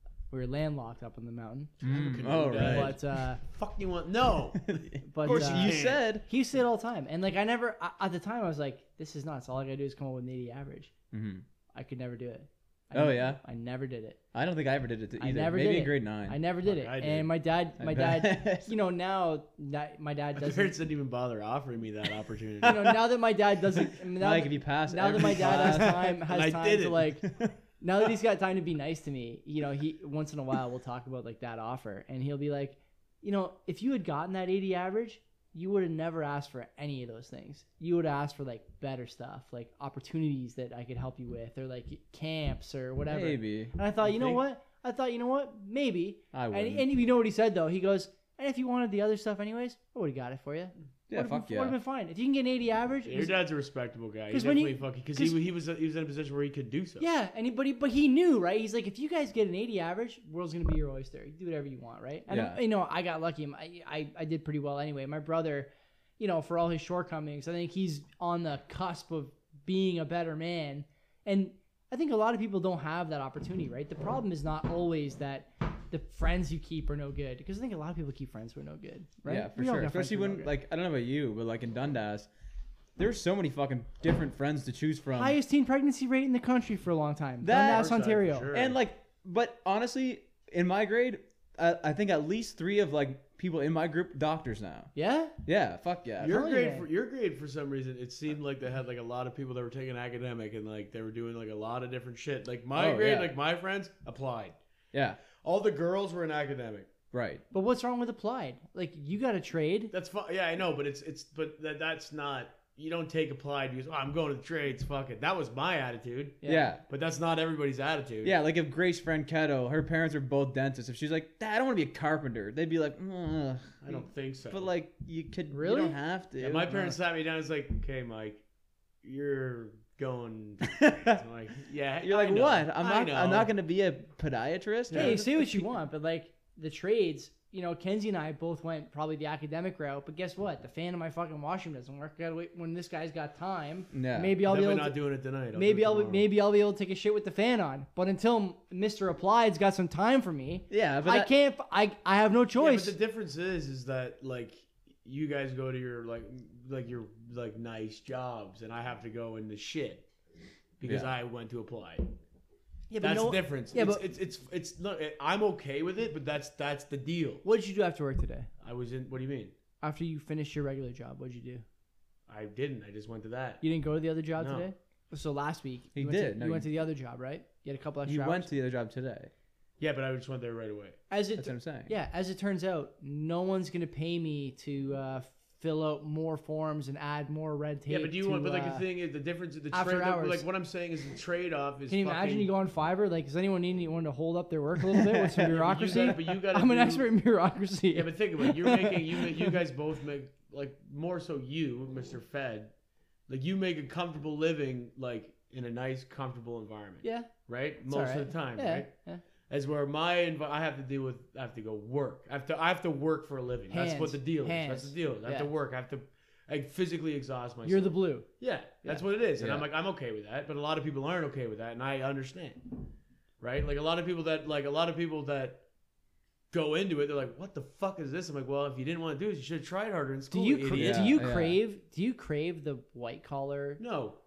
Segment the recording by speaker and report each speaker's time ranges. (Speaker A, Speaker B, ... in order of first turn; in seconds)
Speaker A: 0.3-3.4, 5.0-10.9, 11.7-14.2, 15.2-20.8, 22.6-53.4, 54.3-55.4, 57.0-80.5, 85.1-88.5, 95.0-95.3, 96.2-96.9, 107.5-109.9, 116.4-116.7, 125.5-126.0, 134.9-145.0, 145.6-153.0, 162.9-164.0, 167.4-168.5, 169.8-171.7, 173.6-178.5, 181.1-188.8, 189.7-190.4, 191.9-199.6, 207.0-207.3, 207.9-209.2, 213.7-215.5, 217.7-218.3, 230.3-233.8
Speaker B: 1.8-3.0, 4.6-6.2, 11.1-11.4, 12.9-13.4, 14.3-16.4, 17.8-18.7, 24.2-26.1, 27.2-27.5, 43.1-43.7, 46.3-46.9, 51.1-51.8, 62.3-62.6, 79.3-82.3, 83.0-85.4, 87.4-94.9, 95.4-96.4, 102.8-103.3, 104.9-105.2, 107.1-107.4, 116.5-116.8, 118.2-127.0, 130.7-131.2, 132.0-135.2, 143.9-144.4, 150.7-151.3, 160.9-161.1, 175.9-176.7, 178.1-179.3, 181.4-181.9, 219.4-219.7, 230.7-231.6
Speaker C: 1.8-4.7, 5.2-6.0, 16.6-17.3, 20.4-23.2, 25.1-27.1, 44.0-44.4, 53.0-57.1, 87.5-88.8, 96.2-104.6, 105.4-106.9, 109.9-118.4, 123.8-124.7, 126.4-128.4, 129.0-133.5, 134.9-135.7, 144.5-146.3, 152.6-160.1, 160.8-162.1, 163.0-167.4, 168.6-169.5, 172.3-173.6, 174.4-174.7, 179.8-181.0, 187.9-192.5, 195.0-197.1, 197.9-202.7, 203.3-208.9, 209.5-222.8, 223.4-225.6, 226.5-231.2, 233.8-234.2